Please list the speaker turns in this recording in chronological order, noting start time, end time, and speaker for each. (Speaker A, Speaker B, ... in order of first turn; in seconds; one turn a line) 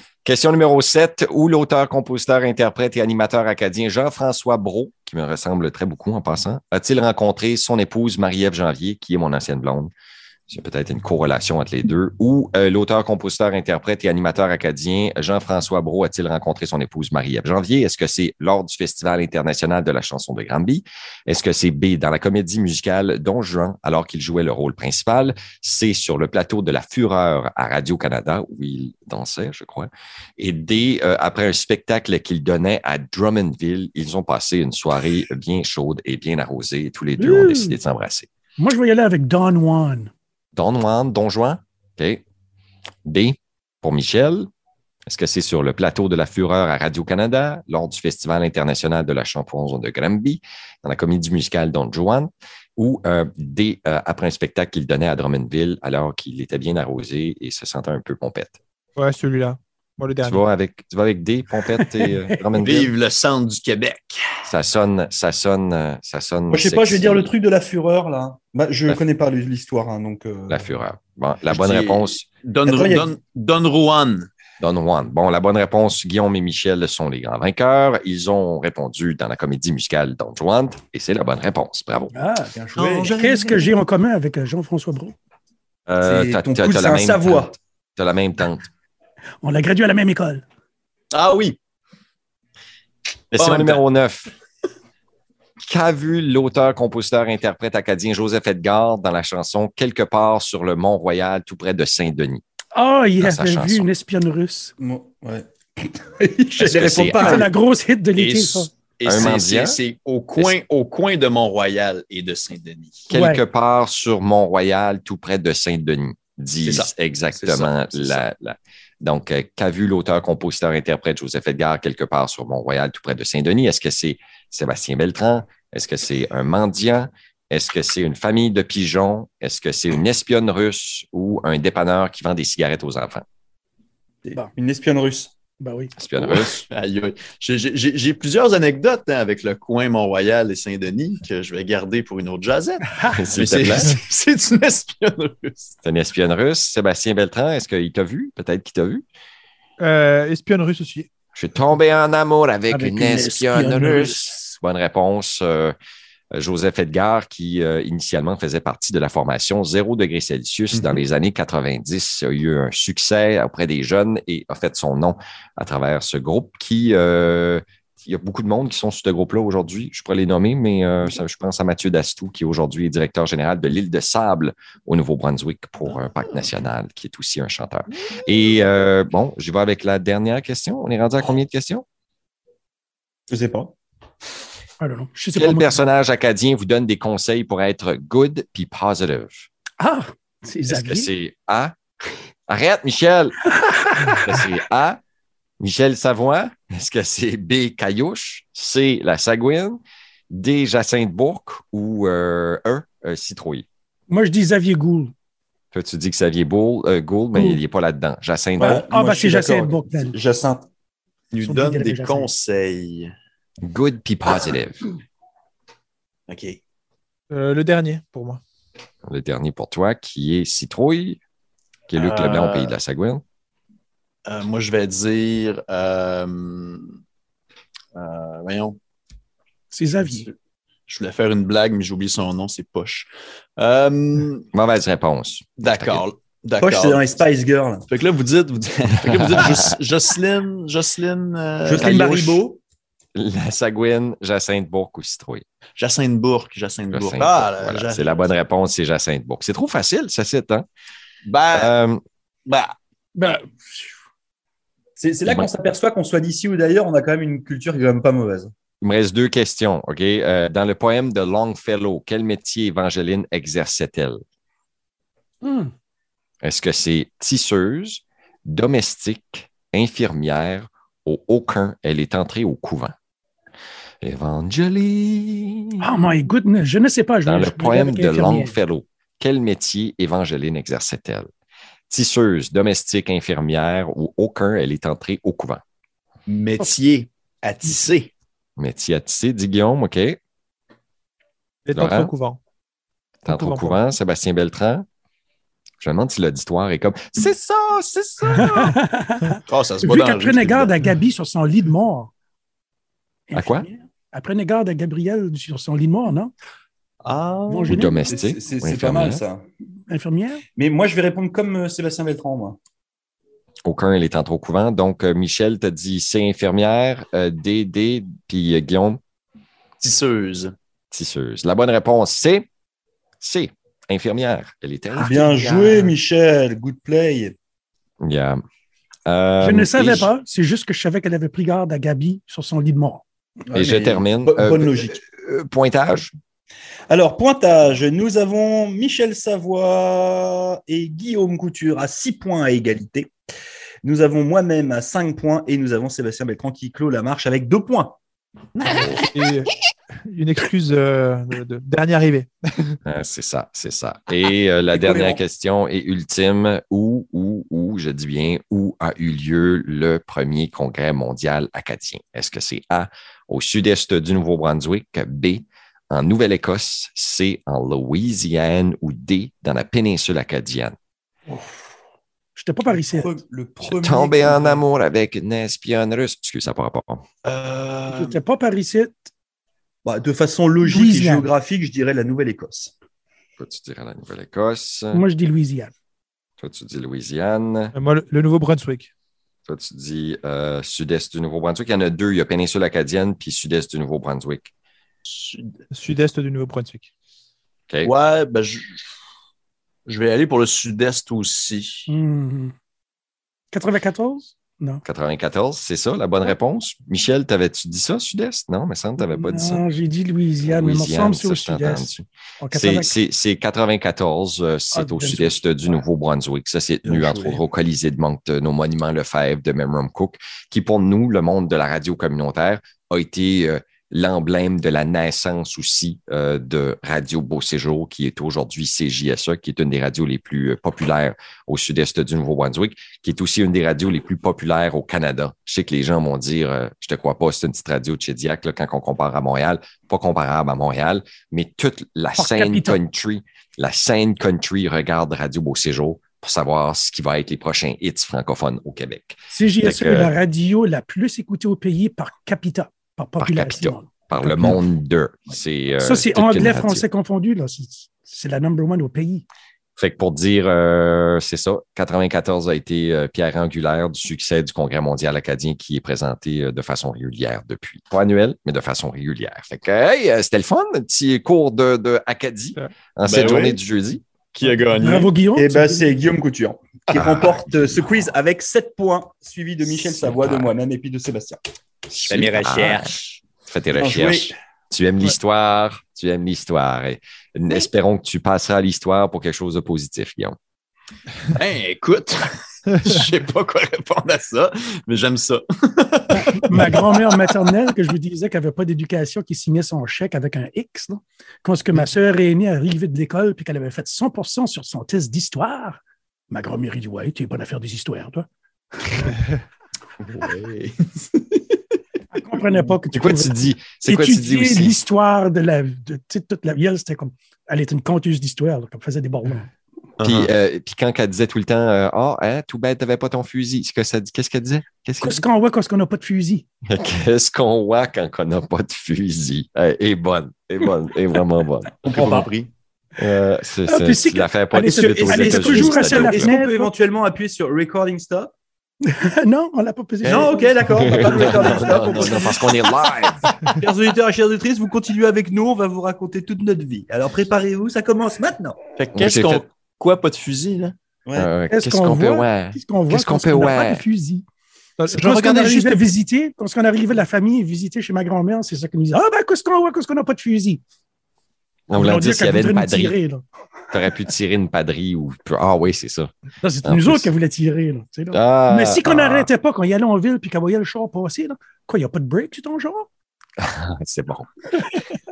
Speaker A: 0.2-9.9
Speaker A: 10.5-38.3
Speaker B: 37.2-37.8
Speaker B: 38.6-40.1
Speaker A: 40.6-42.2
Speaker A: 43.1-44.5
Speaker A: 45.1-58.6
Speaker C: 59.0-60.4
Speaker A: 60.2-62.9
Speaker D: 62.6-64.4
Speaker A: 64.5-67.3
Speaker E: 66.5-70.7
Speaker A: 70.5-72.3
Speaker D: 71.5-74.3
Speaker E: 72.7-73.2
Speaker A: 74.6-82.1
Speaker B: 82.1-82.5
Speaker E: 82.5-83.2
Speaker D: 82.8-83.8
Speaker B: 83.2-85.2
Speaker A: 85.9-88.7
Speaker E: 86.0-87.6
Speaker B: 89.4-90.5
Speaker D: 91.1-91.6
Speaker A: 93.3-94.3
Speaker D: 93.3-93.8
Speaker A: 95.7-102.4
Speaker B: 102.8-104.7
Speaker A: 103.2-103.9
Speaker E: 104.8-107.5
Speaker A: 106.6-107.4
Speaker B: 107.2-108.7
Speaker D: 108.2-113.1
Speaker A: 109.0-109.8
Speaker A: 113.1-133.2
Speaker B: 113.1-113.4
Speaker D: 116.6-118.2
Speaker E: 134.2-135.3
Speaker B: 135.6-135.9
Speaker A: 136.0-136.6
Speaker D: 136.2-145.7
Speaker A: 143.2-144.0
Speaker A: 145.8-149.0
Speaker C: 149.8-151.1
Speaker A: 151.3-155.7
Speaker B: 152.7-154.3
Speaker A: 156.3-181.8
Speaker D: 160.7-161.0
Speaker E: 183.3-183.7
Speaker B: 184.8-185.8
Speaker A: 185.3-189.5
Speaker B: 189.8-191.1
Speaker A: 190.7-191.8
Speaker A: 192.5-193.4
Speaker B: 193.6-194.3
Speaker A: 194.2-195.0
Speaker A: 195.6-199.8
Speaker A: 200.3-203.7
Speaker B: 204.1-205.1
Speaker A: 205.7-208.8
Speaker B: 207.3-207.6
Speaker B: 208.6-210.2
Speaker E: 208.6-210.7
Speaker D: 211.3-213.1
Speaker B: 211.4-212.3
Speaker A: 213.6-214.8
Speaker D: 216.3-216.6
Speaker C: 217.3-218.4
Speaker A: 219.1-221.2
Speaker D: 221.9-222.8
Speaker A: 221.9-223.2
Speaker D: 224.3-227.0
Speaker D: 227.9-228.8
Speaker B: 229.7-230.3
Speaker D: 230.0-230.3
Speaker D: 230.9-234.5
Speaker A: 234.5-236.0
Speaker D: 235.6-237.2
Speaker E: 236.6-237.9
Speaker D: 237.9-242.4
Speaker A: 239.2-239.7
Speaker E: 241.6-242.6
Speaker A: 241.8-242.3
Speaker A: 243.2-245.4
Speaker D: 245.8-248.3
Speaker A: 246.9-250.7
Speaker D: 251.3-251.8
Speaker A: 251.5-252.0
Speaker D: 252.5-252.8
Speaker B: 253.2-253.9
Speaker E: 255.0-258.5
Speaker A: 255.3-255.5
Speaker A: 258.8-264.2
Speaker B: 265.4-265.7
Speaker A: 266.4-272.9
Speaker A: 274.0-275.9
Speaker B: 275.8-278.6
Speaker A: 277.3-281.3
Speaker A: 281.9-285.6
Speaker D: 286.3-288.1
Speaker A: 288.6-290.2
Speaker C: 291.7-292.4
Speaker A: 291.7-292.1
Speaker C: 293.3-293.8
Speaker A: 293.3-294.9
Speaker A: 295.8-298.8
Speaker B: 298.2-302.1
Speaker D: 299.5-300.9
Speaker B: 303.3-306.3
Speaker A: 303.4-303.7
Speaker D: 307.0-307.9
Speaker B: 307.5-308.1
Speaker A: 307.7-309.2
Speaker E: 308.0-309.4
Speaker B: 309.9-310.4
Speaker E: 310.6-312.6
Speaker A: 313.6-319.0
Speaker D: 319.8-320.5
Speaker A: 320.9-322.5
Speaker A: 323.2-325.7
Speaker E: 325.0-327.4
Speaker A: 328.0-328.4
Speaker A: 329.1-330.1
Speaker B: 329.4-333.0
Speaker E: 333.5-335.0
Speaker A: 333.6-336.1
Speaker E: 336.9-343.1
Speaker E: 343.8-348.0
Speaker D: 348.6-349.1
Speaker C: 349.1-349.5
Speaker C: 350.1-352.8
Speaker A: 352.9-370.8
Speaker E: 354.7-355.2
Speaker B: 372.4-373.2
Speaker E: 372.7-374.6
Speaker A: 373.6-377.0
Speaker D: 377.2-378.2
Speaker B: 377.9-379.1
Speaker E: 379.9-382.7
Speaker B: 380.6-381.3
Speaker A: 383.4-385.0
Speaker B: 384.9-385.7
Speaker A: 386.4-387.7
Speaker C: 387.8-388.9
Speaker A: 389.5-394.5
Speaker D: 395.1-395.5
Speaker C: 395.7-396.9
Speaker D: 397.8-398.9
Speaker D: 399.9-401.9
Speaker B: 401.9-402.5
Speaker B: 403.5-404.8
Speaker A: 404.8-409.6
Speaker B: 409.0-412.9
Speaker A: 410.5-450.1
Speaker B: 414.7-415.4
Speaker E: 416.8-417.4
Speaker B: 442.2-442.8
Speaker B: 449.3-454.6
Speaker A: 453.2-456.8
Speaker B: 455.8-459.2
Speaker A: 459.8-474.0
Speaker D: 473.0-473.6
Speaker D: 474.3-475.1
Speaker B: 474.8-475.9
Speaker E: 475.4-481.4
Speaker A: 476.9-478.1
Speaker A: 479.6-480.5
Speaker A: 481.9-482.9
Speaker D: 482.0-483.2
Speaker A: 483.5-490.4
Speaker E: 483.7-484.4
Speaker D: 491.3-497.5
Speaker B: 496.1-508.3
Speaker D: 510.1-511.6
Speaker B: 512.1-519.5
Speaker A: 512.9-514.8
Speaker D: 520.0-520.3
Speaker A: 520.0-525.2
Speaker B: 525.0-526.5
Speaker A: 526.7-532.2
Speaker E: 531.8-532.5
Speaker A: 533.0-536.4
Speaker B: 533.7-536.7
Speaker E: 534.9-538.3
Speaker B: 538.9-542.1
Speaker E: 540.0-542.8
Speaker A: 540.8-543.3
Speaker E: 543.6-548.6
Speaker D: 548.8-550.8
Speaker A: 549.0-549.5
Speaker E: 551.1-551.3
Speaker A: 551.1-553.9
Speaker B: 551.5-554.2
Speaker C: 554.8-555.9
Speaker B: 554.9-560.6
Speaker A: 561.7-563.0
Speaker B: 561.7-563.2
Speaker A: 563.7-566.1
Speaker B: 566.4-572.9
Speaker A: 566.6-567.1
Speaker A: 568.1-569.3
Speaker A: 573.4-574.6